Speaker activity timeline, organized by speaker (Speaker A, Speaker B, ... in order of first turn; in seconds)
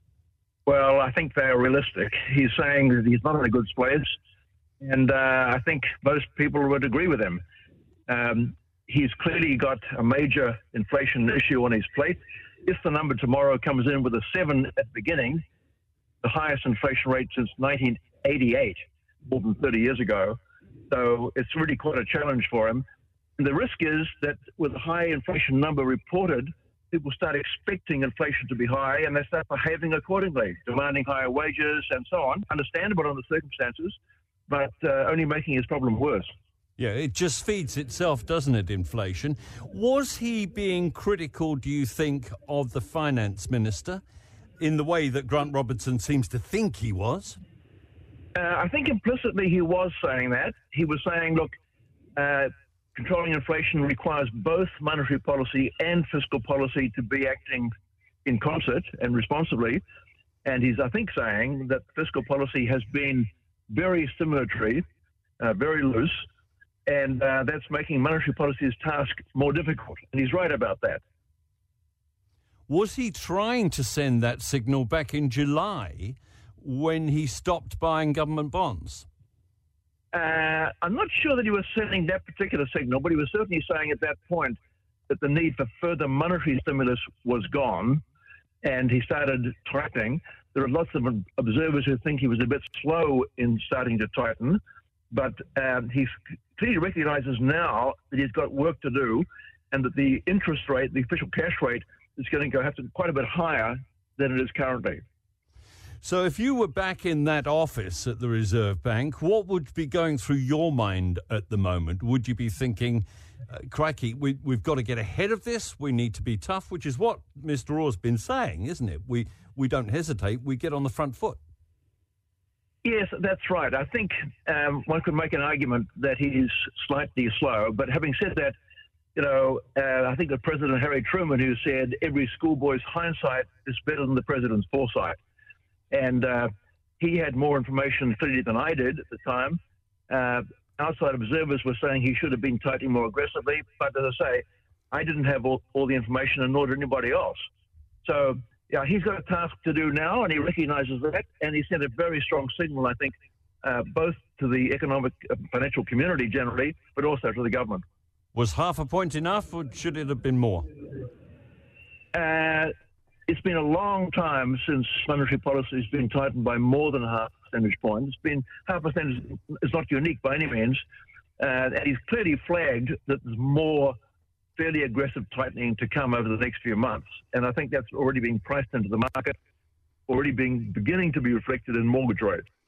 Speaker A: 0.7-4.2, 4.8-7.4, 8.1-15.4, 16.2-20.4, 20.9-22.8, 23.4-34.0, 34.5-36.3, 48.4-51.5, 52.2-57.7, 58.2-59.8, 60.5-64.8, 65.4-66.2, 66.9-71.0, 80.1-88.0, 88.6-94.6, 95.1-105.0, 122.8-128.6, 129.2-135.2, 135.9-147.4, 148.0-157.8, 162.1-162.7, 163.3-170.8, 171.4-173.9, 174.6-179.3, 180.1-182.4
Speaker B: 36.8-44.0, 44.6-47.4, 72.7-79.1, 106.0-121.4, 158.3-160.7